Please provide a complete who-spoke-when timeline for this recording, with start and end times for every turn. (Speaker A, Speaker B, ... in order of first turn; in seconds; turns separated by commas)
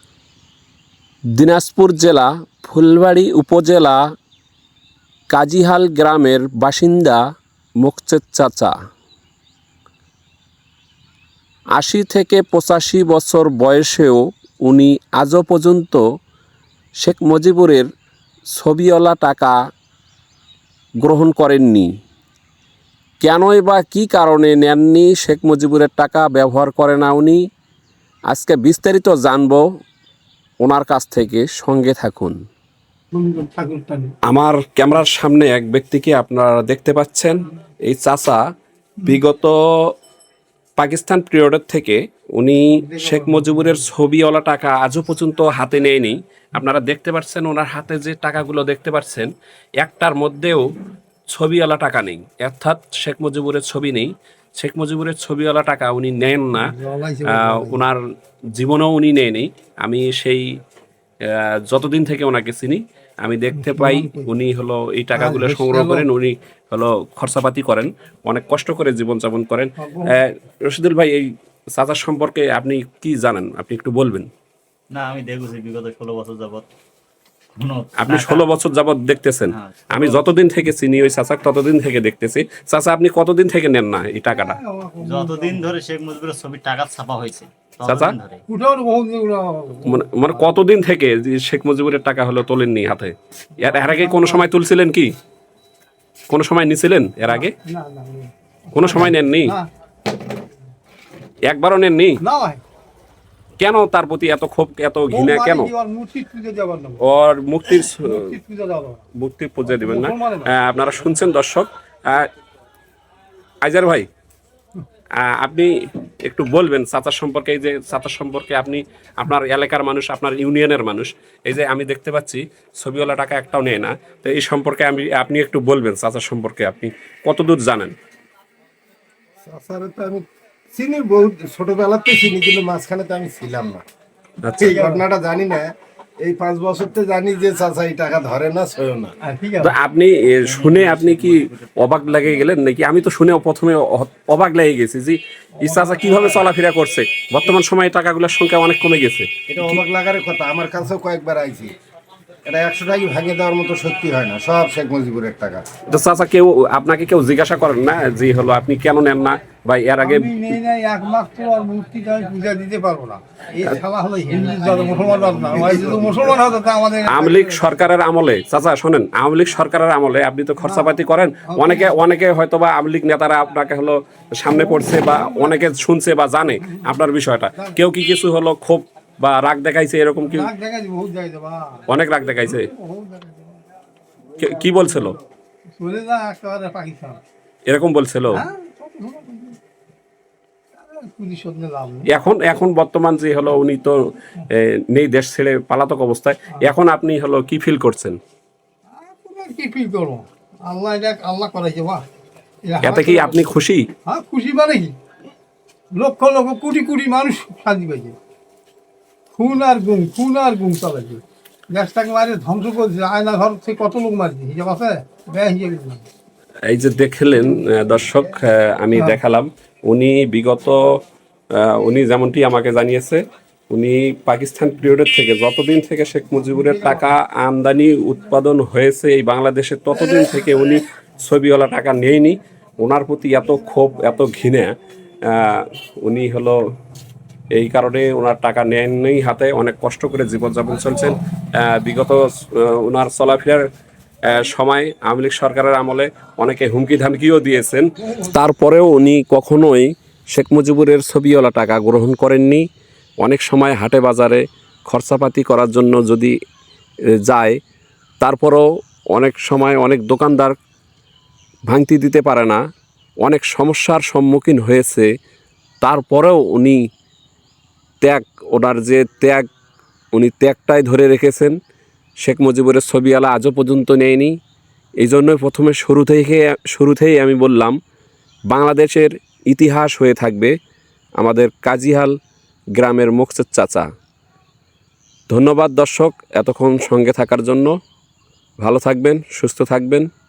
Speaker A: 1.4-4.0, Speaker A: 5.3-7.2, Speaker A: 7.8-8.7, Speaker A: 11.7-16.0, Speaker A: 17.0-17.9, Speaker A: 18.5-19.6, Speaker A: 21.0-21.9, Speaker A: 23.2-27.4, Speaker A: 28.3-29.6, Speaker A: 30.6-32.4, Speaker B: 33.1-34.1, Speaker A: 34.3-38.4, Speaker A: 39.0-39.9, Speaker A: 40.8-50.7, Speaker B: 42.7-43.8, Speaker A: 51.3-56.7, Speaker B: 56.5-57.9, Speaker A: 57.3-58.0, Speaker A: 58.5-60.5, Speaker A: 61.3-74.3, Speaker B: 63.5-64.3, Speaker B: 65.2-66.1, Speaker B: 69.8-70.2, Speaker C: 74.9-76.7, Speaker C: 77.6-78.5, Speaker A: 78.0-84.6, Speaker C: 79.5-80.2, Speaker B: 84.3-85.7, Speaker C: 85.0-88.4, Speaker A: 87.8-88.1, Speaker B: 88.5-90.5, Speaker A: 89.8-95.1, Speaker B: 93.6-94.5, Speaker A: 96.3-97.5, Speaker B: 97.3-99.7, Speaker A: 98.7-99.6, Speaker A: 101.5-102.2, Speaker B: 102.2-102.6, Speaker A: 103.6-105.7, Speaker B: 105.1-107.0, Speaker A: 107.0-108.3, Speaker B: 107.7-109.0, Speaker A: 109.2-112.3, Speaker B: 109.6-110.5, Speaker A: 113.6-114.1, Speaker A: 115.2-115.7, Speaker A: 116.2-127.9, Speaker D: 129.5-133.8, Speaker A: 134.4-134.8, Speaker D: 134.6-139.2, Speaker B: 134.6-135.0, Speaker B: 139.2-139.8, Speaker A: 139.6-149.3, Speaker C: 140.4-142.4, Speaker B: 145.6-146.4, Speaker D: 149.5-151.7, Speaker D: 152.5-155.8, Speaker A: 155.9-160.6, Speaker B: 160.0-167.7, Speaker D: 164.9-166.4, Speaker A: 167.1-180.5, Speaker B: 170.6-171.0, Speaker B: 171.5-171.9, Speaker B: 174.6-175.7, Speaker B: 176.6-177.0, Speaker B: 180.2-181.9, Speaker A: 181.9-182.7, Speaker B: 182.4-183.6, Speaker A: 184.4-185.2, Speaker B: 185.8-187.2, Speaker A: 187.7-188.5, Speaker B: 188.3-189.6, Speaker B: 190.8-192.2, Speaker A: 192.1-194.0, Speaker A: 194.5-198.2, Speaker B: 199.0-202.1, Speaker B: 202.7-203.4, Speaker A: 202.8-203.9, Speaker B: 204.1-204.9, Speaker B: 205.9-208.2, Speaker B: 209.4-216.0, Speaker A: 216.7-220.8, Speaker A: 221.5-234.7, Speaker B: 226.5-227.0, Speaker A: 235.3-236.6, Speaker A: 237.5-243.7, Speaker A: 244.3-252.7, Speaker A: 253.2-256.3, Speaker A: 257.2-257.6, Speaker A: 258.2-260.6, Speaker A: 261.7-262.6, Speaker A: 263.2-265.1, Speaker A: 265.8-266.8, Speaker A: 268.0-269.4, Speaker A: 270.1-271.6, Speaker A: 272.2-274.3, Speaker A: 275.0-277.8, Speaker A: 278.5-280.5, Speaker A: 281.2-282.1, Speaker A: 282.8-283.9, Speaker A: 285.3-287.8, Speaker A: 288.6-290.1